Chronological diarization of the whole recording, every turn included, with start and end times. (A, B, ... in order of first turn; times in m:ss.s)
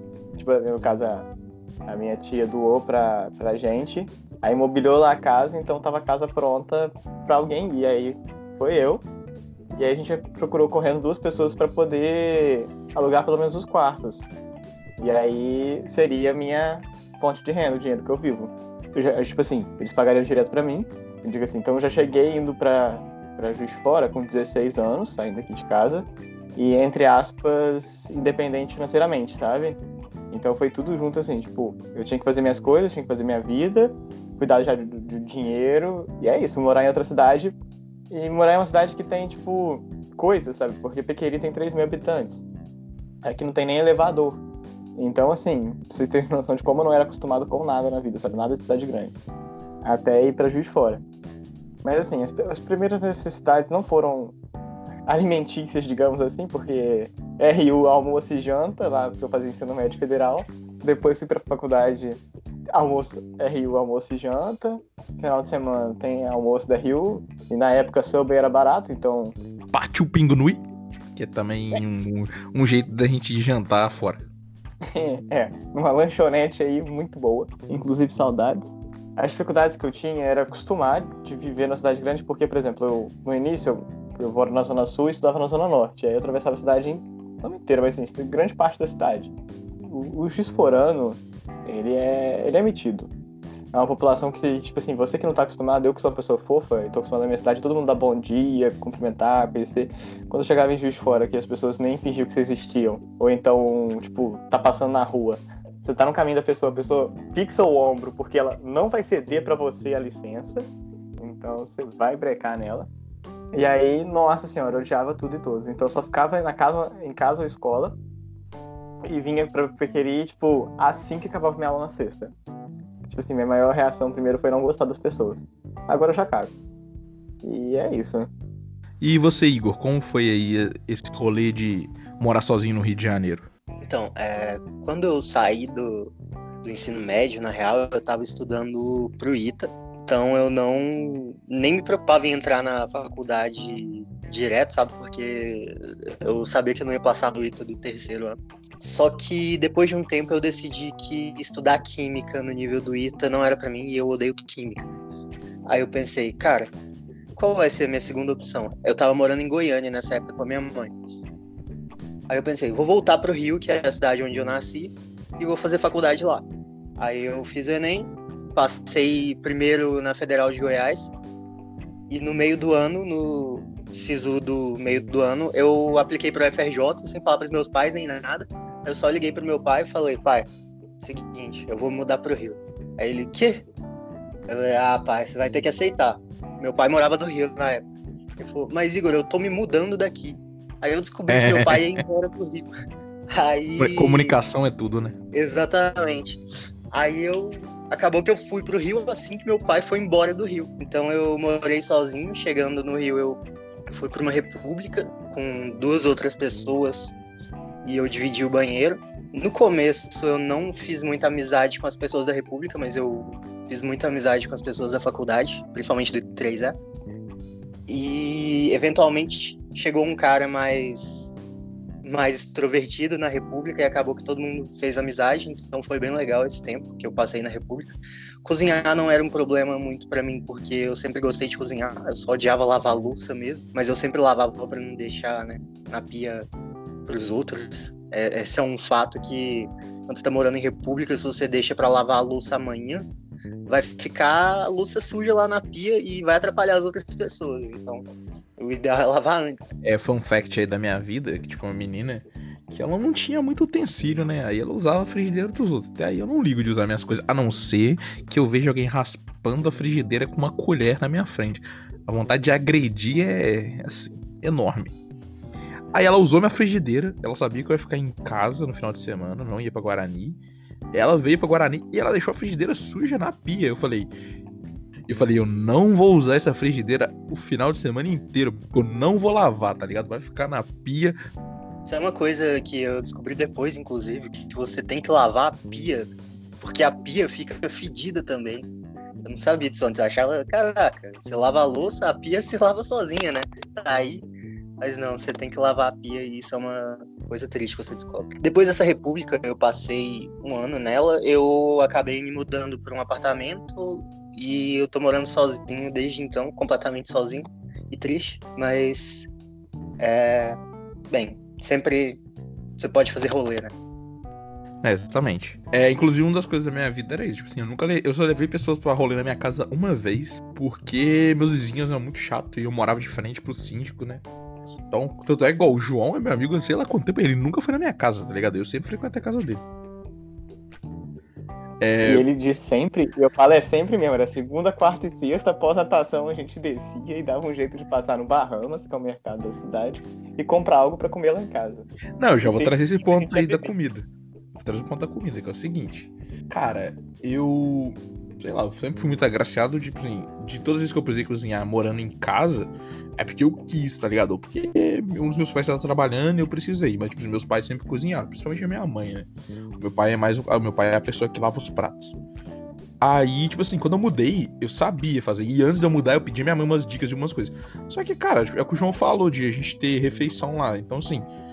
0:00.4-0:01.3 A
0:01.9-0:09.0 A
0:09.7-0:14.3 A
0:15.0-0:29.8 A
0:30.3-0:37.6 A
0:38.1-0:42.4 A
0:43.2-0:44.4 A
0:45.0-0:49.1 A
0:49.8-0:51.0 A
0:51.8-0:54.4 A
0:55.1-1:09.4 A
1:09.7-1:10.6 B
1:11.2-1:14.3 B
1:14.9-1:33.1 A
1:33.7-1:52.9 A
1:53.5-1:58.0 A
1:59.0-2:02.3 A
2:03.1-2:06.5 A
2:07.4-2:08.3 A
2:09.0-2:13.5 B
2:13.8-2:34.9 C
2:35.7-2:36.7 C
2:37.4-2:40.9 C
2:42.3-2:46.5 C
2:47.0-2:51.1 C
2:52.1-3:00.5 C
3:01.0-3:03.6 C
3:04.5-3:07.9 C
3:08.4-3:12.7 C
3:11.3-3:12.0 B
3:13.3-3:14.4 C
3:13.8-3:15.2 B
3:15.3-3:16.4 C
3:16.9-3:27.2 C
3:27.8-3:36.8 C
3:37.9-3:41.3 C
3:42.0-3:47.9 C
3:48.4-3:56.5 C
3:57.1-4:03.1 C
4:03.7-4:08.0 C
4:08.6-4:09.6 C
4:09.8-4:24.9 B
4:25.9-4:30.4 B
4:30.9-4:34.1 B
4:35.1-4:41.2 B
4:41.9-4:48.7 C
4:49.2-4:54.3 C
4:54.8-5:09.3 C
5:10.0-5:10.6 C
5:11.1-5:12.2 C
5:12.8-5:13.7 C
5:14.8-5:29.6 B
5:31.8-5:32.3 B
5:32.0-5:41.9 A
5:42.2-5:59.3 B
5:42.4-5:43.7 A
5:59.8-6:02.2 B
6:03.0-6:11.3 B